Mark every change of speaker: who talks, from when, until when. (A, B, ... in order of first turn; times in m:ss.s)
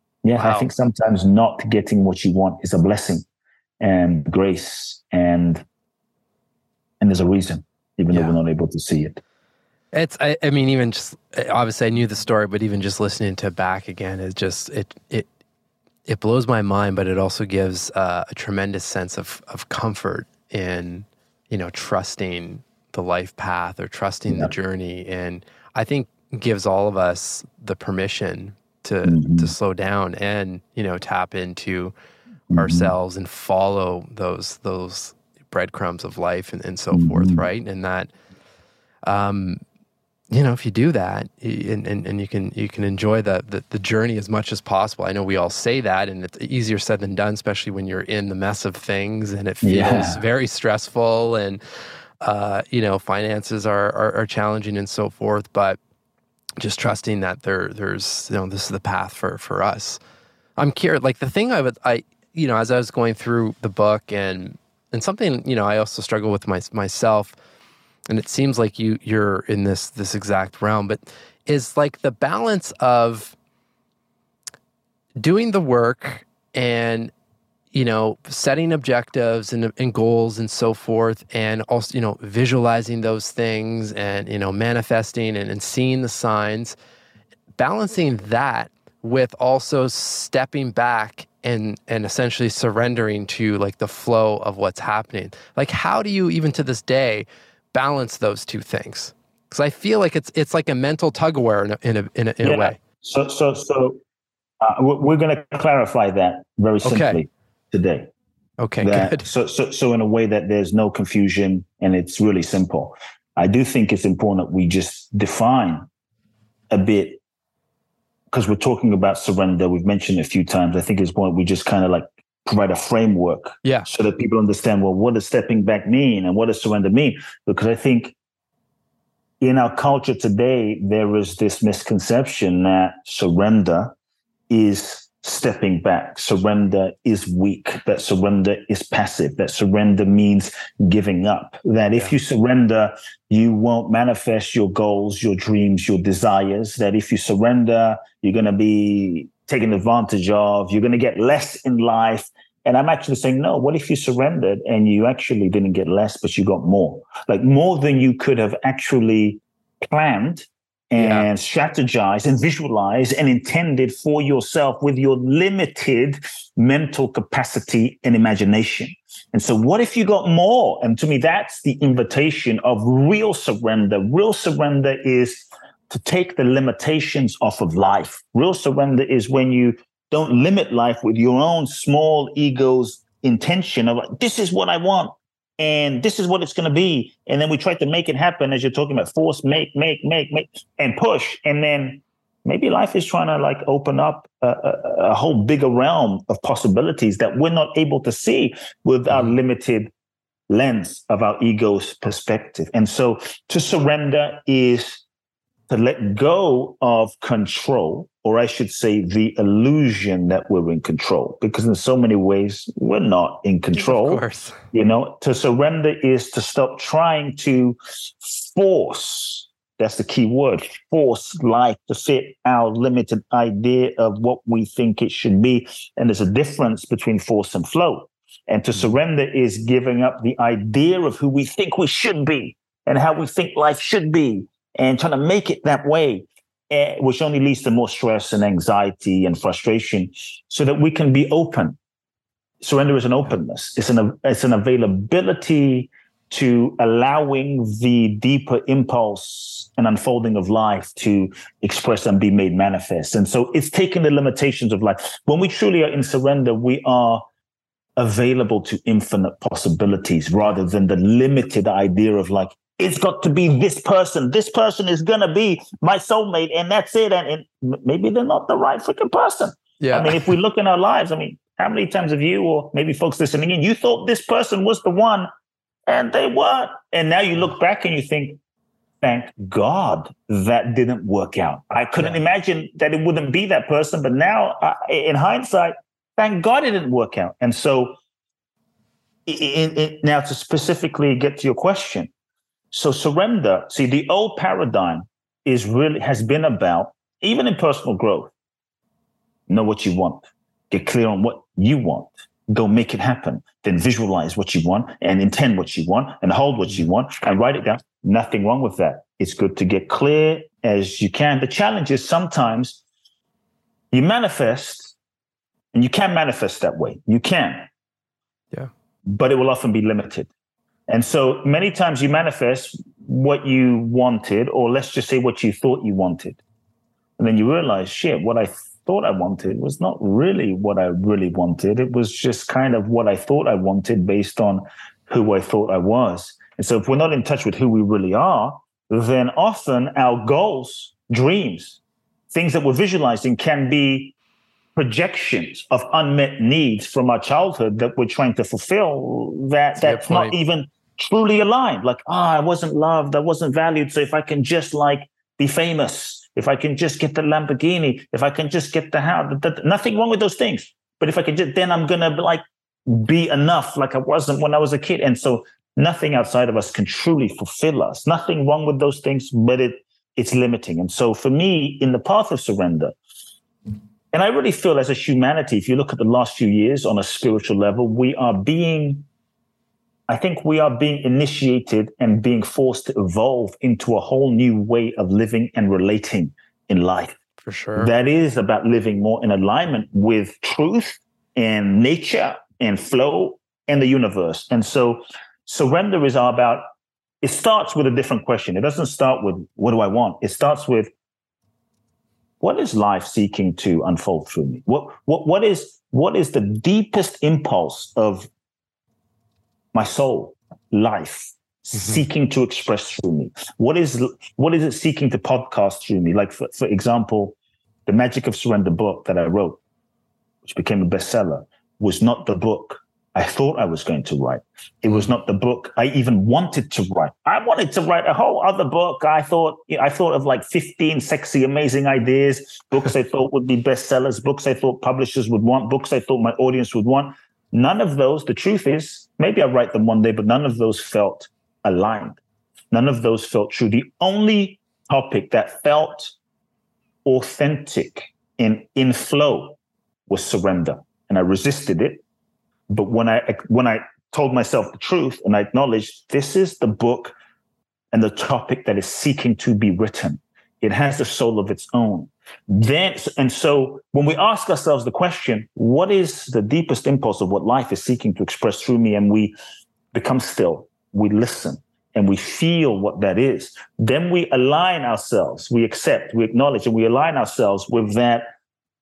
0:00.2-0:03.2 A
0:00.4-0:00.7 B
0:03.8-0:05.6 A
0:07.0-0:09.2 A
0:08.1-0:08.4 B
0:09.9-0:15.3 B
0:16.0-0:31.9 B
0:29.0-0:29.5 A
0:32.5-0:32.9 A
0:32.5-0:38.1 B
0:36.9-0:37.4 A
0:39.0-0:39.6 B
0:40.3-0:51.6 B
0:49.6-0:50.2 A
0:52.2-0:55.8 B
0:56.6-1:00.0 B
1:00.6-1:07.3 B
1:08.1-1:13.3 B
1:15.2-1:17.1 B
1:17.7-1:26.8 B
1:27.6-1:42.8 B
1:42.4-1:44.0 A
1:44.6-1:48.1 A
1:46.8-1:47.2 B
1:48.6-1:49.2 B
1:48.8-1:55.9 A
1:56.7-1:57.2 A
1:58.3-2:08.1 A
2:09.4-2:13.9 A
2:14.5-3:19.9 A
2:41.0-2:41.3 B
3:20.5-3:25.0 A
3:25.7-4:01.8 A
3:33.7-3:34.6 B
4:02.6-4:17.2 A
4:18.0-4:35.3 A
4:29.8-4:30.2 B
4:35.9-4:38.4 A
4:39.0-4:48.0 A
4:49.2-4:52.1 A
4:52.7-4:58.3 A
4:59.5-5:12.8 A
5:13.9-5:15.0 A
5:15.7-5:17.7 A
5:19.1-5:20.3 A
5:20.9-5:26.4 A
5:27.2-5:41.8 A
5:42.3-5:44.1 A
5:44.8-6:12.9 A
5:49.8-5:50.3 B
6:14.1-6:19.1 A
6:20.1-6:27.2 A
6:27.4-6:27.9 B
6:27.8-6:36.6 A
6:37.2-6:40.9 A
6:42.4-6:48.3 A
6:49.7-6:59.6 A
7:00.4-7:22.2 A
7:04.9-7:05.1 B
7:22.7-7:26.1 A
7:27.0-7:29.6 A
7:30.1-7:32.0 A
7:32.7-7:37.1 A
7:37.9-7:49.3 A
7:49.9-7:58.2 A